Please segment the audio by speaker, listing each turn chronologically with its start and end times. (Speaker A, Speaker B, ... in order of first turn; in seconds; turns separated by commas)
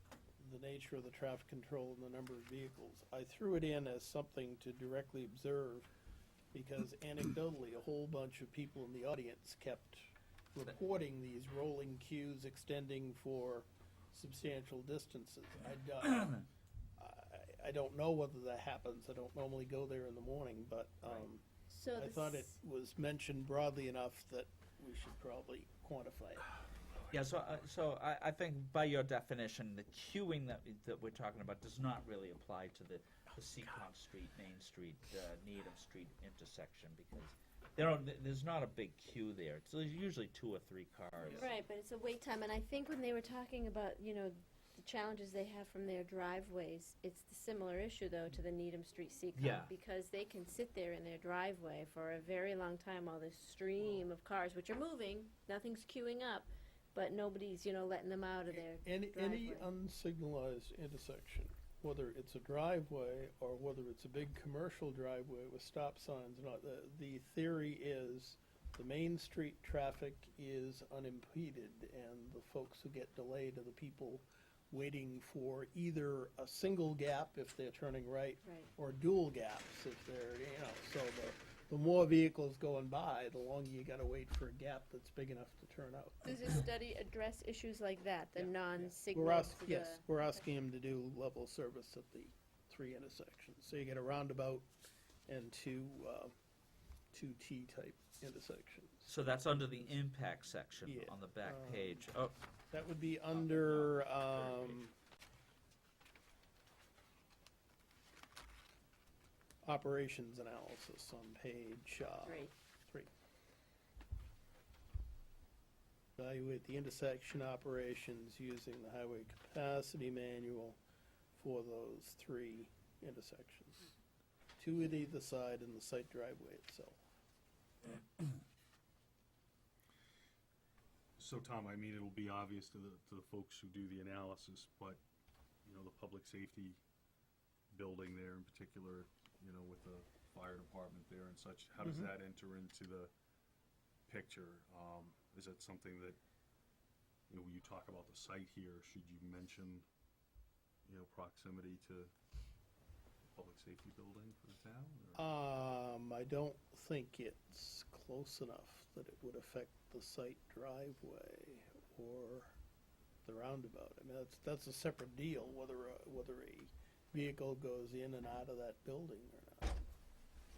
Speaker A: 0.4-5.9, Speaker A: 6.5-16.4, Speaker B: 16.0-16.3, Speaker A: 17.0-21.4, Speaker C: 21.7-22.6, Speaker A: 21.9-26.5, Speaker B: 27.1-41.5, Speaker C: 41.3-59.7, Speaker B: 49.4-49.7, Speaker A: 58.5-86.6, Speaker C: 78.4-78.7, Speaker C: 86.2-90.1, Speaker A: 88.3-94.7, Speaker A: 95.3-96.3, Speaker A: 97.1-100.0, Speaker B: 99.1-102.4, Speaker A: 100.8-102.1, Speaker A: 102.7-104.9, Speaker D: 103.3-104.8, Speaker A: 109.6-113.1, Speaker C: 112.2-112.5, Speaker A: 116.2-120.8, Speaker A: 121.3-123.9, Speaker A: 124.6-127.0, Speaker D: 131.2-135.0, Speaker D: 135.7-136.8, Speaker D: 137.7-143.1, Speaker A: 141.8-142.1, Speaker D: 144.1-146.2, Speaker D: 147.3-149.8, Speaker D: 150.8-152.1, Speaker D: 153.3-155.3, Speaker A: 155.2-162.6, Speaker A: 163.2-169.8